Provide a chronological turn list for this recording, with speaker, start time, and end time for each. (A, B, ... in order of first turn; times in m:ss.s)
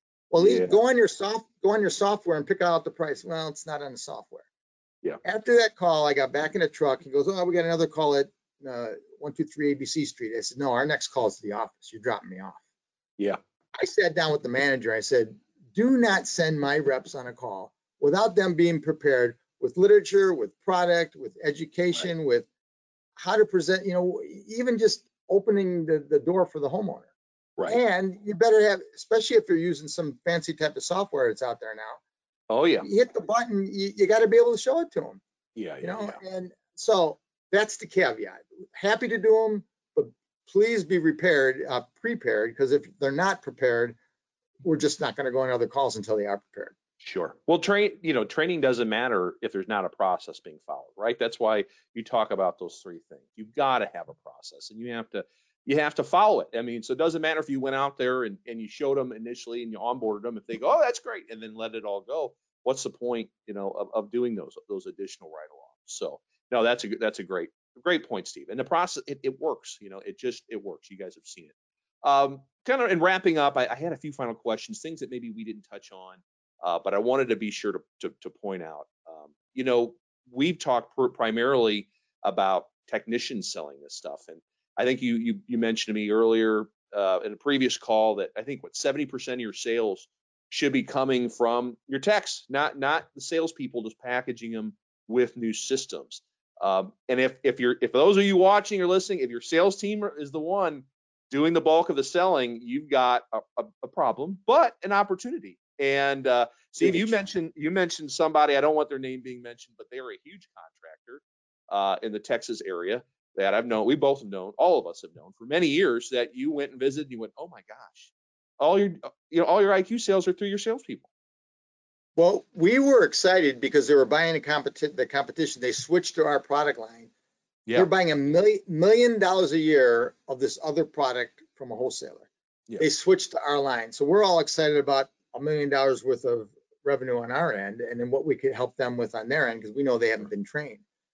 0:00.3-0:04.5 A
0:00.4-0:00.7 B
0:05.2-0:12.6 A
0:13.8-0:22.5 A
0:23.2-0:27.1 A
0:27.6-0:32.0 A
0:32.5-0:32.9 B
0:32.8-0:35.2 A
0:35.6-0:36.2 B
0:35.8-0:44.0 A
0:44.6-0:46.8 A
0:47.0-2:01.1 B
1:46.8-1:47.1 A
2:02.2-2:07.1 A
2:07.8-2:12.3 A
2:12.8-2:20.8 A